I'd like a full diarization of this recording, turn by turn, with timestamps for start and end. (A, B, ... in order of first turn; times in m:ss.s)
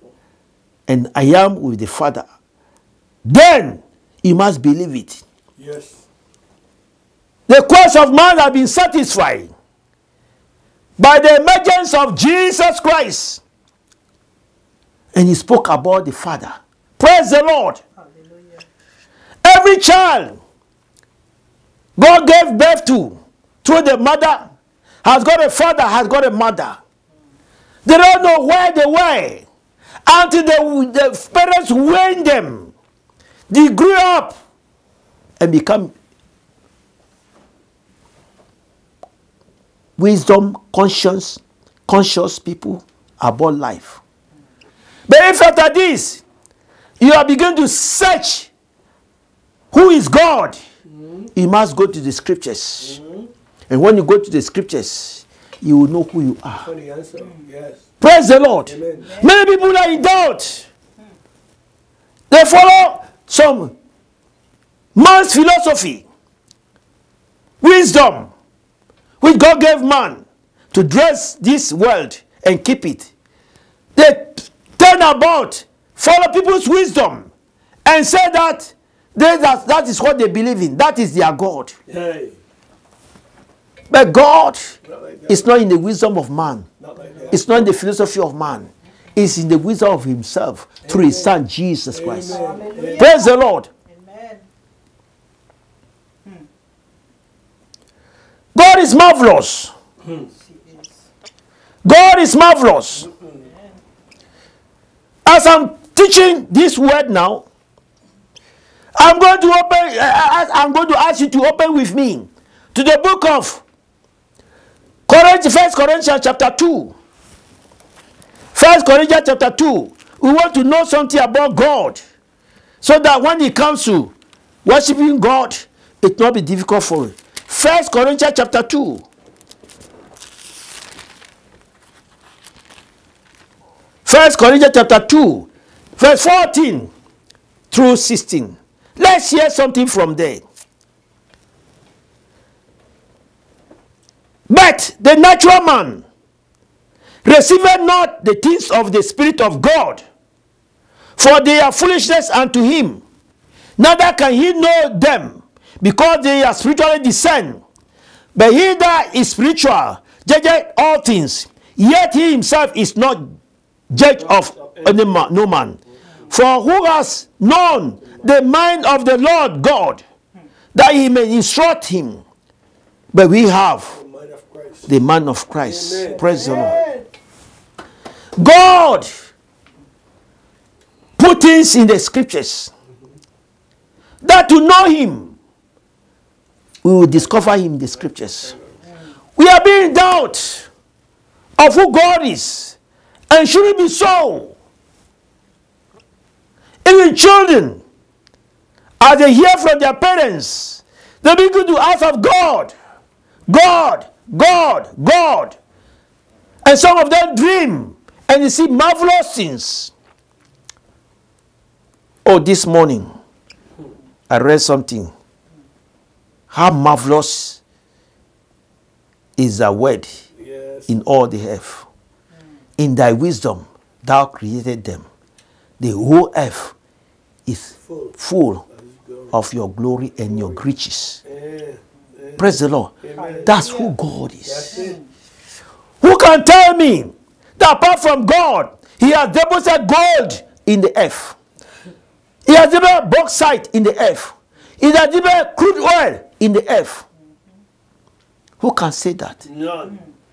0:00.9-0:02.2 A
0:03.2-0:05.2 A
0:05.6-0:06.0 B
0:07.5-0:09.5 A
0:11.0-0:13.4 A
0:15.1-0:17.8 A
0:18.0-0:18.6 C
0:19.4-0:20.4 A
0:22.0-0:24.5 A
0:25.0-0:26.8 A
0:27.8-0:29.4 A
0:30.0-0:32.7 A
0:33.5-0:34.4 A
0:35.4-0:35.9 A
0:40.0-0:44.0 A
0:45.1-0:46.2 A
0:47.0-0:48.5 A
0:49.7-0:50.6 A
0:50.8-0:51.3 B
0:51.3-0:53.0 A
0:52.8-0:53.3 B
0:53.7-0:56.6 A
0:56.6-0:57.8 B
0:58.0-1:00.7 A
0:58.6-0:59.2 B
0:59.0-0:59.3 C
1:02.3-1:03.7 A
1:04.9-1:06.0 A
1:07.6-1:08.3 A
1:09.2-1:13.1 A
1:13.9-1:17.3 A
1:17.8-1:21.7 A
1:21.9-1:22.4 B
1:23.9-1:24.7 A
1:24.8-1:25.5 B
1:25.3-1:26.6 A
1:26.8-1:27.7 B
1:27.0-1:27.3 C
1:27.3-1:32.4 A
1:30.8-1:31.3 B
1:31.9-1:33.1 B
1:32.3-1:34.4 C
1:33.0-1:33.7 A
1:38.5-1:39.7 A
1:40.2-1:41.0 C
1:41.8-1:43.1 A
1:43.0-1:43.5 B
1:43.3-1:43.8 C
1:45.2-1:47.4 A
1:49.0-1:53.6 A
1:55.1-1:56.9 A
1:58.5-2:02.0 A
2:02.8-2:04.1 A
2:04.6-2:09.0 A
2:14.0-2:16.9 A
2:17.7-2:20.4 A
2:24.5-2:26.0 A
2:27.2-2:30.0 A
2:31.2-2:33.0 A
2:33.8-2:37.6 A
2:38.3-2:43.3 A
2:43.9-2:50.0 A
2:44.0-2:45.3 B
2:50.7-2:52.2 A
2:53.1-2:54.0 A
2:53.9-2:54.9 B
2:54.9-2:56.8 A
2:55.6-2:57.0 B
2:56.1-2:57.0 C
2:58.4-2:59.1 A
3:01.2-3:02.7 A
3:04.2-3:05.3 A
3:06.8-3:08.5 A
3:07.9-3:08.8 B
3:09.4-3:10.7 A
3:11.6-3:12.8 A
3:13.3-3:14.5 A
3:16.8-3:17.8 A
3:19.0-3:22.7 A
3:23.5-3:25.6 A
3:26.6-3:29.9 A
3:32.2-3:33.1 A
3:34.3-3:35.1 A
3:36.5-3:37.6 A
3:39.4-3:40.2 A
3:40.3-3:41.0 B
3:40.9-3:41.9 A
3:42.8-3:45.0 A
3:45.8-3:46.7 A
3:47.4-3:48.6 A
3:47.8-3:48.1 B
3:48.7-3:49.3 B
3:49.3-3:51.2 A
3:50.3-3:50.6 B
3:51.2-3:53.6 B
3:52.4-3:52.9 A
3:53.1-3:53.9 C
3:53.4-3:54.8 A
3:54.4-3:55.0 B
3:56.0-4:01.4 A
4:02.4-4:07.0 A
4:08.6-4:09.4 A
4:09.4-4:10.0 B